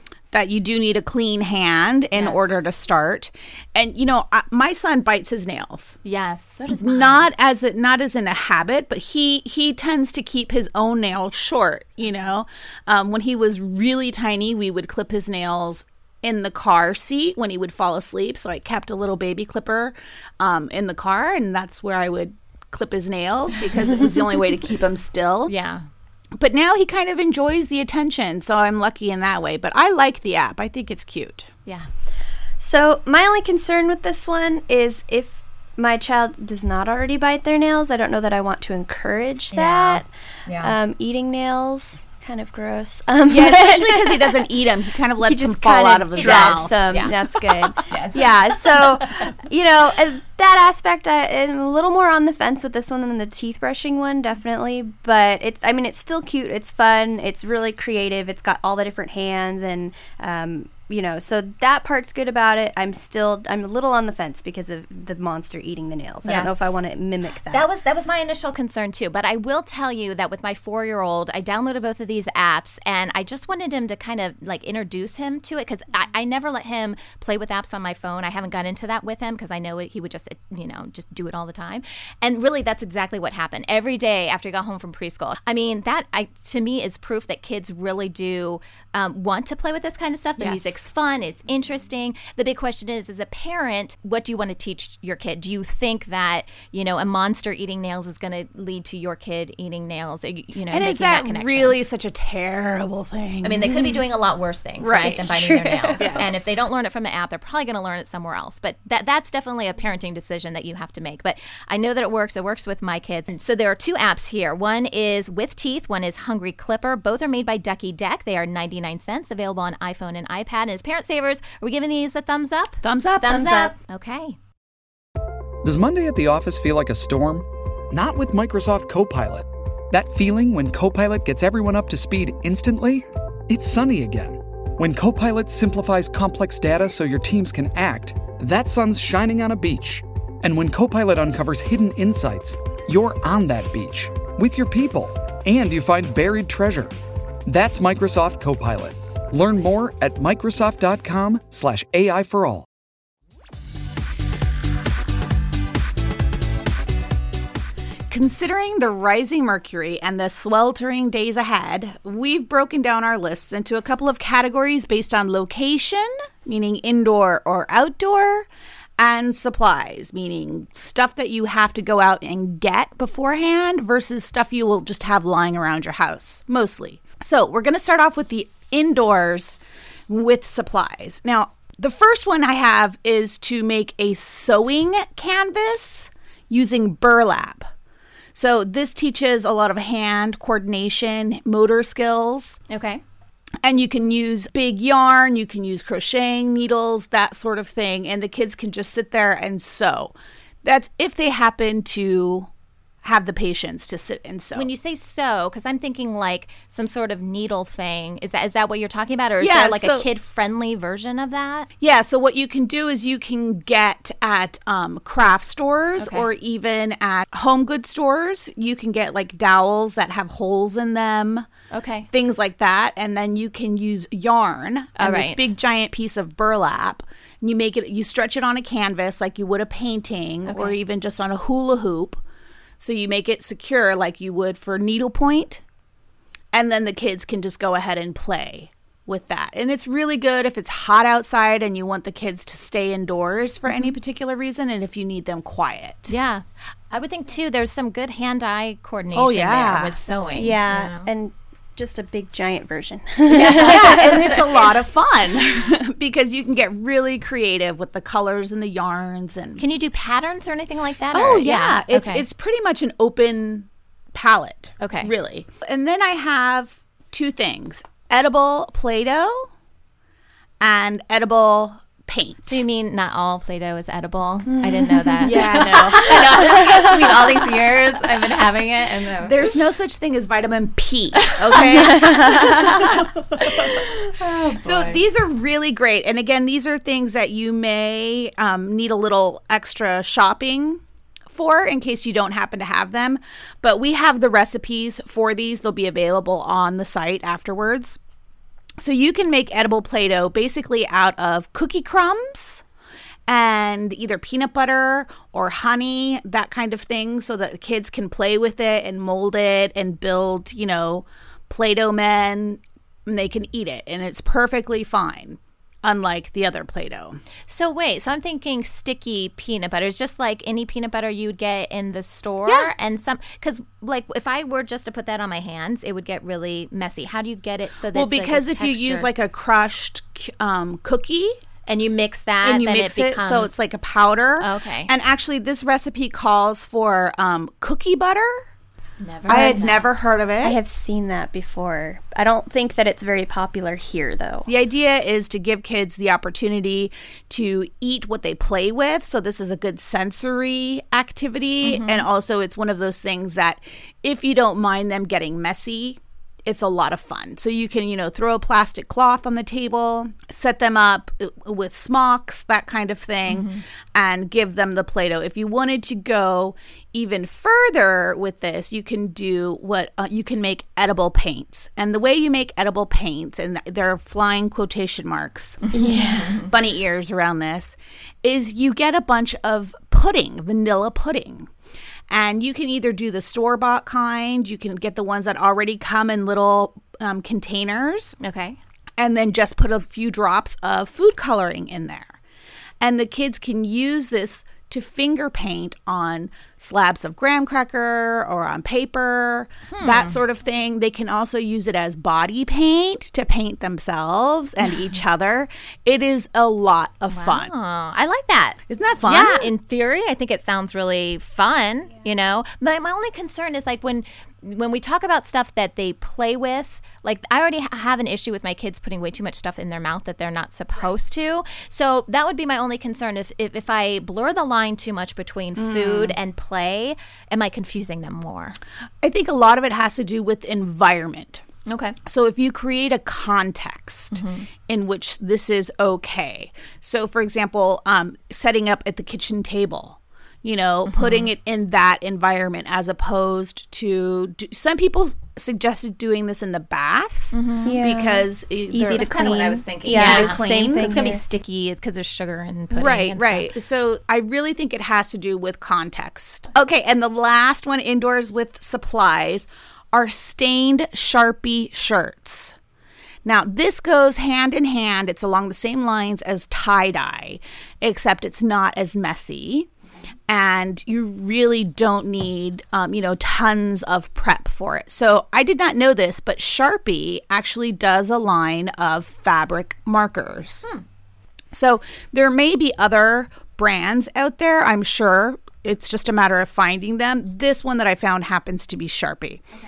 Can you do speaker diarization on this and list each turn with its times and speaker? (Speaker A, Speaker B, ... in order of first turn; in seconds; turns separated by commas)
Speaker A: 0.3-6.0, Speaker B: 2.1-2.6, Speaker B: 6.0-7.3, Speaker A: 6.7-25.5, Speaker B: 25.5-25.9, Speaker A: 26.4-31.5, Speaker C: 32.6-44.5, Speaker B: 39.5-40.7, Speaker A: 43.3-47.1, Speaker C: 45.2-67.7, Speaker B: 46.1-47.1, Speaker B: 47.9-49.3, Speaker B: 66.2-66.8, Speaker B: 67.5-101.8, Speaker A: 90.4-90.8, Speaker A: 100.7-103.9, Speaker B: 103.4-124.4, Speaker A: 104.8-105.3, Speaker C: 105.0-106.3, Speaker A: 106.0-106.5, Speaker A: 122.8-123.7, Speaker D: 125.6-146.9, Speaker D: 147.5-152.7, Speaker A: 158.1-168.5, Speaker A: 169.0-179.6, Speaker A: 180.1-187.7, Speaker A: 188.3-192.6, Speaker B: 192.7-193.0, Speaker A: 193.6-202.5, Speaker A: 203.0-204.7, Speaker B: 204.5-211.7, Speaker A: 209.4-210.1, Speaker A: 211.8-221.5, Speaker B: 216.0-216.3, Speaker B: 221.7-222.1, Speaker A: 222.1-232.2, Speaker B: 225.0-225.5, Speaker B: 230.5-230.8, Speaker A: 232.8-235.6, Speaker A: 236.5-246.1, Speaker B: 246.1-251.1, Speaker A: 249.1-250.0, Speaker C: 250.3-254.6, Speaker B: 253.3-254.7, Speaker A: 253.5-259.6, Speaker B: 259.6-262.2, Speaker A: 261.1-269.5, Speaker B: 264.8-265.1, Speaker A: 270.6-272.6, Speaker B: 272.5-279.5, Speaker C: 275.0-275.4, Speaker A: 275.2-277.5, Speaker A: 279.2-298.0, Speaker B: 281.3-285.0, Speaker A: 298.8-302.6, Speaker A: 303.3-317.2, Speaker B: 317.5-329.1, Speaker A: 322.5-322.7, Speaker A: 327.9-331.4, Speaker B: 331.7-333.5, Speaker A: 332.4-338.5, Speaker B: 334.4-334.9, Speaker B: 339.0-339.9, Speaker A: 339.3-340.6, Speaker C: 339.3-339.8, Speaker C: 340.4-344.5, Speaker A: 344.5-381.5, Speaker B: 351.6-352.1, Speaker B: 363.3-363.6, Speaker B: 375.7-376.5, Speaker A: 382.1-388.2, Speaker B: 388.2-388.6, Speaker A: 389.0-392.2, Speaker A: 392.8-407.5, Speaker B: 399.7-400.2, Speaker B: 407.1-428.6, Speaker A: 408.7-409.5, Speaker A: 425.6-426.2, Speaker A: 429.0-431.4, Speaker B: 431.7-432.0, Speaker A: 432.1-451.0, Speaker B: 434.1-434.5, Speaker B: 440.9-441.3, Speaker B: 447.3-447.8, Speaker C: 447.6-451.2, Speaker B: 448.8-453.5, Speaker A: 452.7-462.6, Speaker A: 463.2-469.7, Speaker A: 470.3-480.6, Speaker A: 481.5-489.4